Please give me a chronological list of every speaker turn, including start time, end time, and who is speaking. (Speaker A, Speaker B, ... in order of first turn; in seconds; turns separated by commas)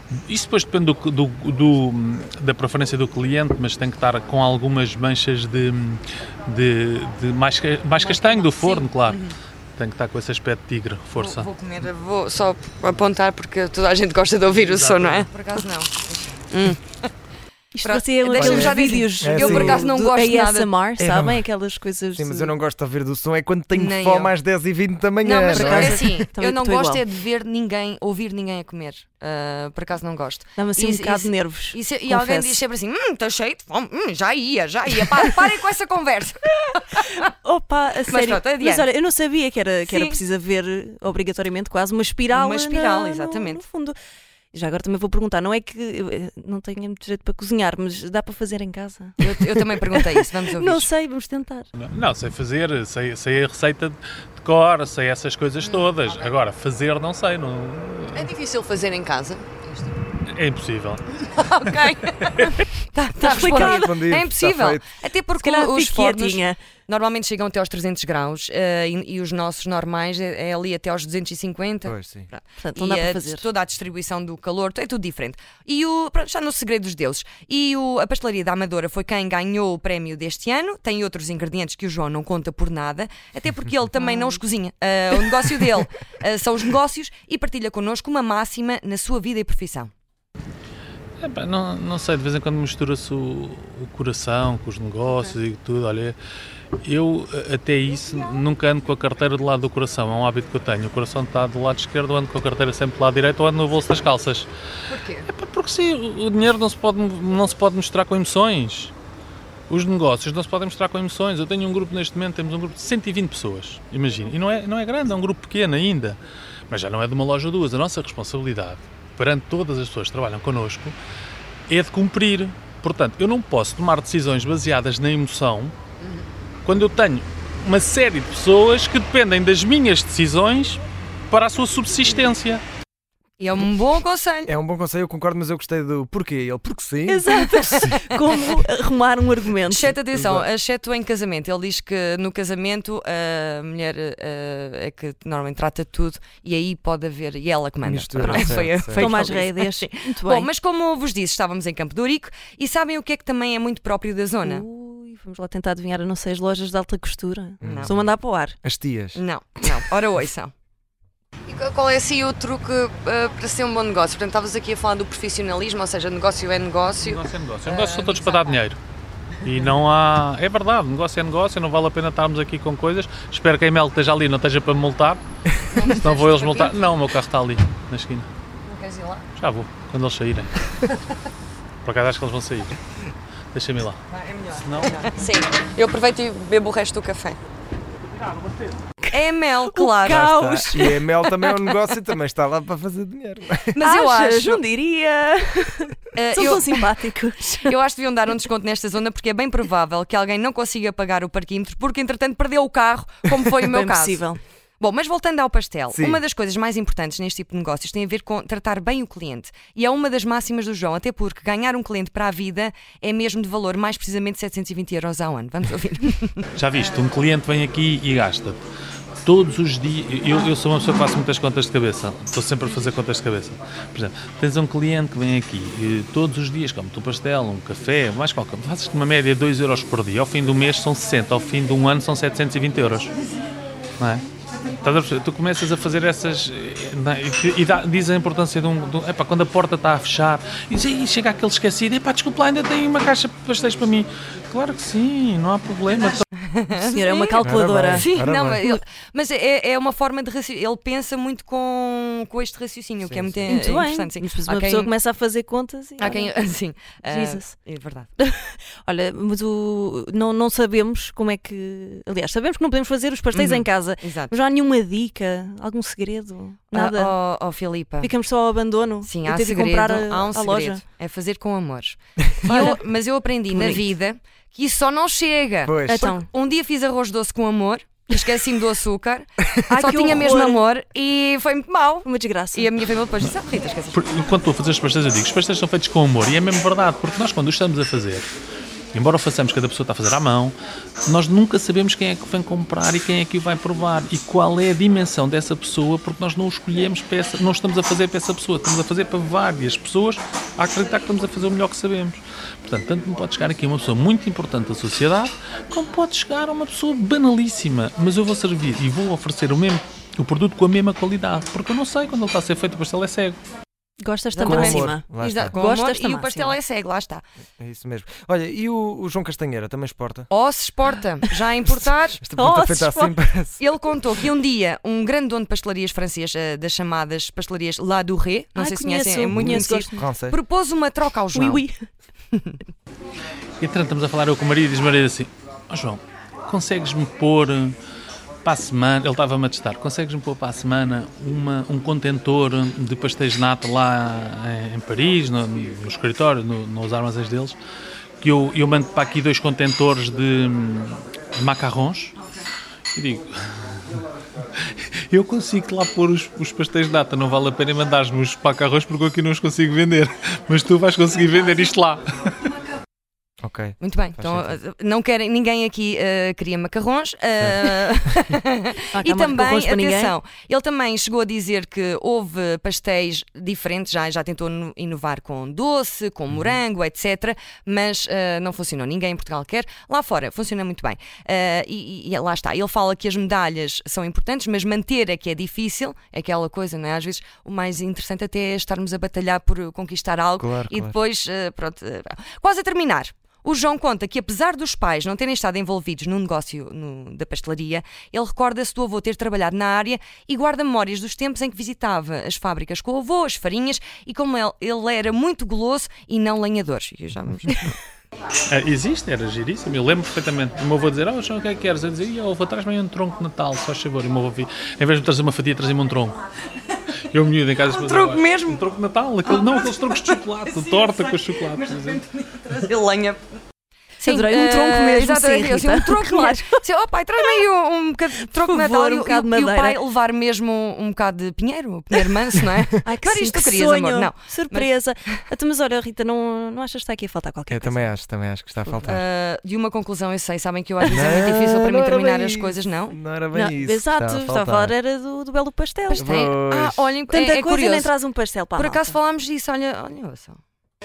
Speaker A: 0.3-9.2, Speaker B: 8.0-9.3, Speaker A: 9.8-11.5, Speaker B: 11.1-17.1, Speaker C: 14.6-15.3, Speaker D: 17.7-22.5, Speaker B: 17.8-20.7, Speaker C: 18.3-19.9, Speaker C: 21.0-21.5, Speaker C: 22.1-26.1, Speaker B: 23.7-24.3, Speaker B: 25.2-37.2, Speaker D: 25.5-27.0, Speaker D: 30.6-32.6, Speaker D: 37.0-44.0, Speaker B: 38.1-38.9, Speaker B: 39.8-40.2, Speaker B: 42.3-43.6, Speaker D: 44.5-51.7, Speaker B: 49.2-50.9, Speaker A: 51.8-58.3, Speaker B: 55.6-55.9, Speaker B: 58.1-60.0, Speaker A: 60.3-62.6, Speaker B: 61.2-71.9, Speaker D: 63.1-64.0, Speaker C: 63.3-64.8, Speaker D: 65.3-66.6, Speaker C: 71.8-72.3, Speaker D: 72.4-73.5, Speaker B: 72.8-89.9, Speaker A: 91.2-96.2, Speaker B: 95.1-95.3, Speaker A: 96.8-104.5, Speaker B: 104.9-105.3, Speaker A: 105.3-108.9, Speaker A: 109.7-121.0, Speaker A: 121.7-125.8, Speaker A: 126.6-132.6, Speaker B: 133.4-134.5, Speaker C: 134.4-137.3, Speaker D: 137.1-139.9, Speaker B: 137.3-138.5, Speaker B: 139.6-154.7, Speaker C: 140.1-140.5, Speaker C: 147.8-149.1, Speaker D: 148.2-150.5, Speaker D: 154.4-158.6, Speaker C: 157.6-158.0, Speaker B: 157.6-157.9, Speaker C: 158.6-159.2, Speaker B: 159.1-160.5, Speaker B: 161.5-168.6, Speaker A: 167.0-168.8, Speaker A: 169.4-175.2, Speaker B: 175.7-176.8, Speaker A: 175.8-178.3, Speaker B: 178.6-179.3, Speaker A: 179.4-180.9, Speaker A: 181.8-182.8, Speaker A: 183.5-184.0, Speaker B: 184.1-187.4, Speaker A: 184.5-185.1, Speaker D: 189.0-191.7, Speaker B: 189.1-190.2, Speaker C: 190.1-193.8, Speaker B: 193.7-194.6, Speaker D: 193.8-197.7, Speaker B: 196.2-196.8, Speaker B: 197.6-204.2, Speaker D: 203.6-204.4, Speaker B: 204.8-216.4, Speaker C: 205.9-206.2, Speaker A: 216.6-218.6, Speaker A: 219.2-233.1, Speaker A: 234.0-234.3, Speaker A: 234.8-246.2, Speaker B: 246.4-247.4, Speaker D: 246.8-248.1, Speaker C: 247.4-248.6, Speaker B: 247.9-254.9, Speaker C: 253.1-253.7, Speaker D: 253.5-256.3, Speaker B: 256.0-258.1, Speaker D: 257.1-257.5, Speaker D: 258.2-267.1, Speaker B: 263.3-264.4, Speaker B: 266.7-268.1, Speaker D: 268.0-270.8, Speaker B: 269.0-284.1, Speaker D: 272.4-272.8, Speaker D: 273.5-273.9, Speaker C: 275.7-276.1, Speaker D: 275.9-276.3, Speaker D: 279.7-280.6, Speaker D: 282.0-282.7, Speaker A: 283.9-288.3, Speaker A: 288.9-313.4, Speaker D: 314.0-316.6, Speaker B: 314.3-317.2, Speaker C: 314.4-315.6, Speaker C: 317.6-320.3, Speaker B: 320.3-322.2, Speaker C: 322.2-323.6, Speaker D: 322.3-323.2, Speaker B: 323.6-331.6, Speaker D: 328.6-330.0, Speaker C: 329.3-330.4, Speaker D: 331.3-331.9, Speaker A: 333.6-337.8, Speaker A: 338.4-347.6, Speaker A: 348.2-352.2, Speaker A: 352.9-354.0, Speaker A: 354.6-362.5, Speaker C: 363.4-364.6, Speaker B: 363.8-407.7, Speaker C: 367.4-367.7, Speaker D: 368.9-370.1, Speaker C: 376.3-376.6, Speaker C: 390.4-390.9, Speaker A: 408.5-416.2, Speaker A: 417.1-422.0, Speaker B: 417.7-418.6, Speaker B: 419.2-423.2, Speaker B: 424.0-434.7, Speaker D: 424.0-426.6, Speaker D: 428.3-429.8, Speaker D: 432.8-437.9, Speaker C: 437.5-439.1, Speaker D: 438.6-438.9, Speaker B: 438.8-443.0, Speaker D: 440.9-441.2, Speaker C: 440.9-444.7, Speaker D: 443.3-446.1, Speaker B: 445.9-447.9, Speaker C: 446.0-446.9, Speaker D: 447.1-449.0, Speaker B: 448.6-450.4